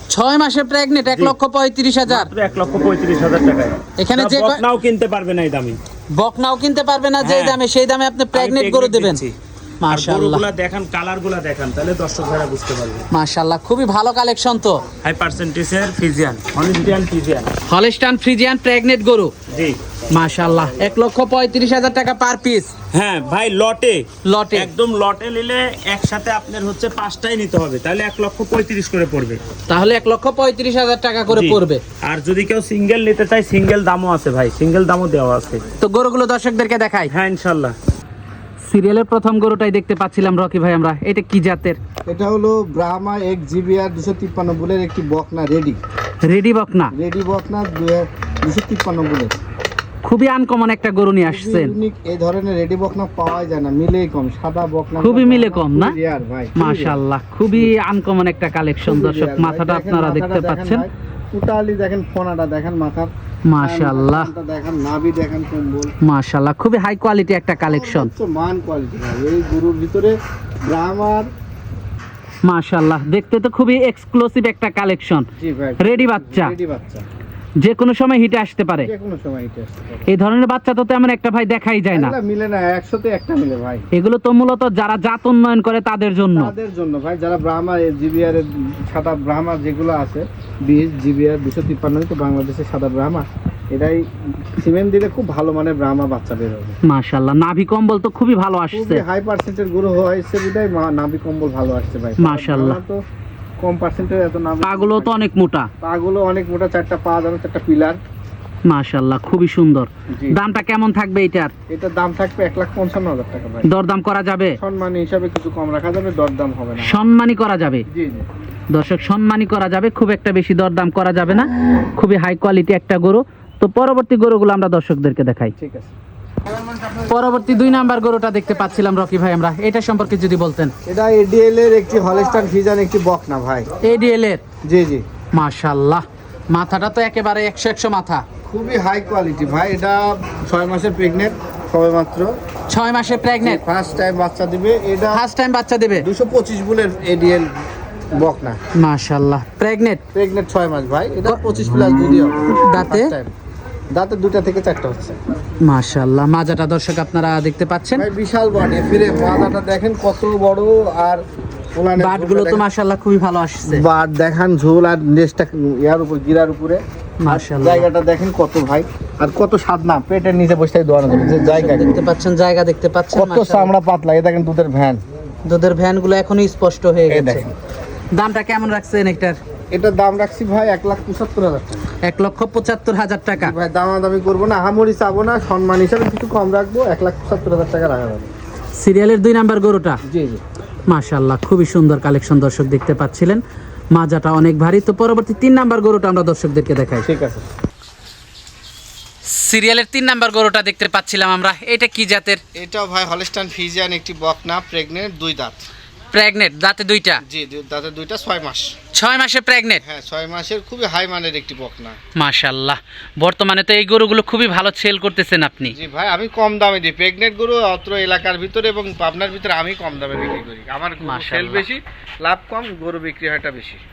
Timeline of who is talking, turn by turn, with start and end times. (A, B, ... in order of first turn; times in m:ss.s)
0:00.1-0:02.3 A
0:02.1-0:05.8 B
0:04.0-0:04.6 A
0:06.1-0:09.2 A
0:07.2-0:07.6 B
0:08.3-0:09.4 B
0:09.8-0:10.4 A
0:09.9-0:13.0 B
0:13.1-0:14.8 A
0:15.0-0:17.5 B
0:17.7-0:19.3 A
0:19.5-0:19.8 B
0:20.1-0:22.7 A
0:22.9-0:29.4 B
0:24.2-0:24.7 A
0:29.7-0:31.8 A
0:31.3-0:35.6 B
0:35.8-0:37.1 A
0:37.1-0:37.7 B
0:38.6-0:41.8 A
0:42.0-0:45.8 C
0:46.2-0:46.9 A
0:46.9-0:49.3 C
0:50.0-0:51.8 A
0:51.2-0:57.0 C
0:55.0-0:56.0 A
0:56.6-1:00.9 A
0:58.8-1:05.9 C
1:03.5-1:04.3 A
1:06.0-1:08.1 A
1:07.7-1:11.3 C
1:12.4-1:15.2 A
1:15.4-1:17.0 C
1:15.8-1:16.5 A
1:17.6-1:18.9 A
1:18.8-1:20.1 C
1:20.1-1:22.2 A
1:21.9-1:23.9 C
1:23.9-1:26.5 A
1:26.3-1:34.0 C
1:34.6-1:36.8 C
1:36.8-1:39.0 A
1:38.7-1:43.0 C
1:42.2-1:42.8 A
1:43.6-1:45.1 C
1:44.6-1:45.7 A
1:45.8-1:48.0 C
1:48.7-1:51.5 A
1:50.1-1:50.4 C
1:51.7-1:53.7 C
1:53.6-1:54.6 A
1:54.6-1:57.0 C
1:56.8-1:57.8 A
1:57.9-1:58.2 C
1:58.7-2:05.6 A
2:05.6-2:05.9 C
2:07.0-2:10.7 A
2:10.8-2:13.6 C
2:13.8-2:14.4 A
2:14.6-2:15.0 C
2:15.3-2:18.2 A
2:18.4-2:22.3 C
2:22.7-2:23.6 A
2:23.4-2:25.2 C
2:25.1-2:26.1 A
2:26.0-2:27.5 C
2:28.1-2:28.6 C
2:28.8-2:30.0 A
2:30.1-2:33.3 C
2:32.5-2:33.1 A
2:33.9-2:35.2 C
2:35.6-2:38.1 A
2:38.0-2:42.6 C
2:42.0-2:43.8 A
2:43.7-2:52.0 C
2:47.2-2:47.9 A
2:51.5-2:53.7 A
2:53.1-2:55.0 C
2:55.4-2:57.4 A
2:57.1-2:57.5 C
2:58.1-2:59.4 A
2:59.7-3:01.8 C
3:02.0-3:03.5 A
3:03.4-3:08.3 C
3:08.8-3:10.0 A
3:10.0-3:10.4 C
3:10.9-3:17.1 A
3:17.0-3:17.4 C
3:19.3-3:22.4 A
3:22.5-3:25.6 C
3:26.1-3:27.2 A
3:27.2-3:28.8 C
3:28.9-3:29.8 A
3:29.8-3:32.0 C
3:32.2-3:35.8 A
3:35.7-3:43.8 C
3:41.0-3:41.6 A